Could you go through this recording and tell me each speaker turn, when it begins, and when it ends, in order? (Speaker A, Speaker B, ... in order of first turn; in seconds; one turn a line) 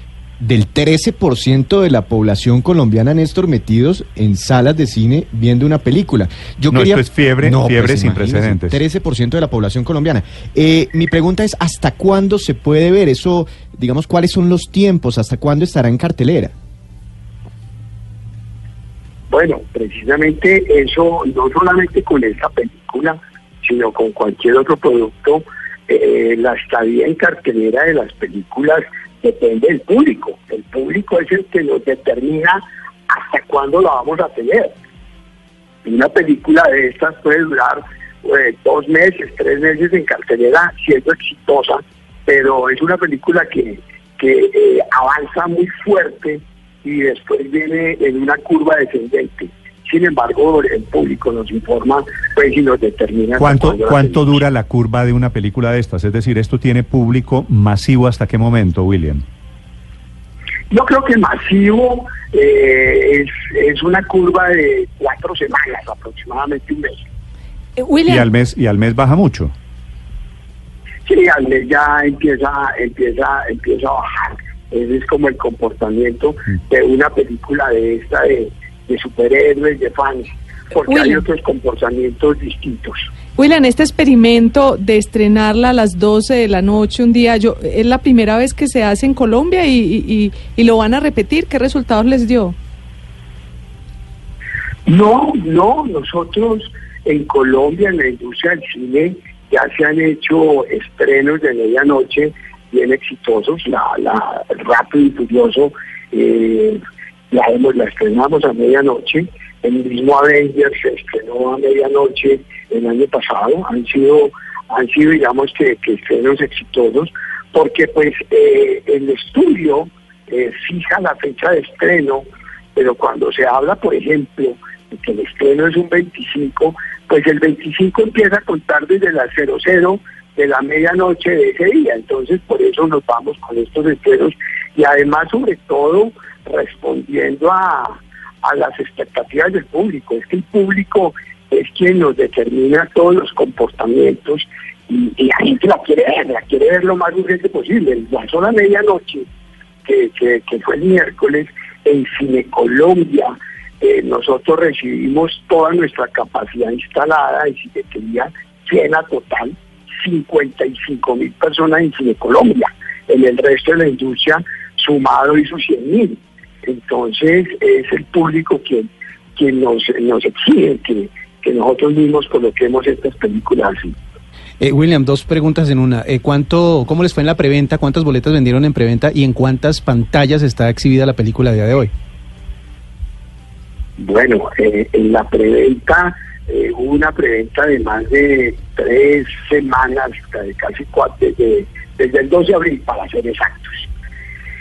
Speaker A: 0.4-16.5
Speaker B: 6.7-8.8
Speaker C: 19.3-34.7
Speaker C: 35.8-54.3
Speaker B: 53.4-59.2
Speaker C: 60.7-67.0
Speaker D: 67.8-68.2
Speaker B: 68.0-69.5
Speaker C: 71.0-83.1
Speaker D: 80.9-81.2
Speaker D: 83.3-92.5
Speaker C: 94.9-106.8
Speaker C: 107.3-149.2
Speaker C: 149.8-173.9
Speaker E: 174.6-181.9
Speaker C: 184.0-193.9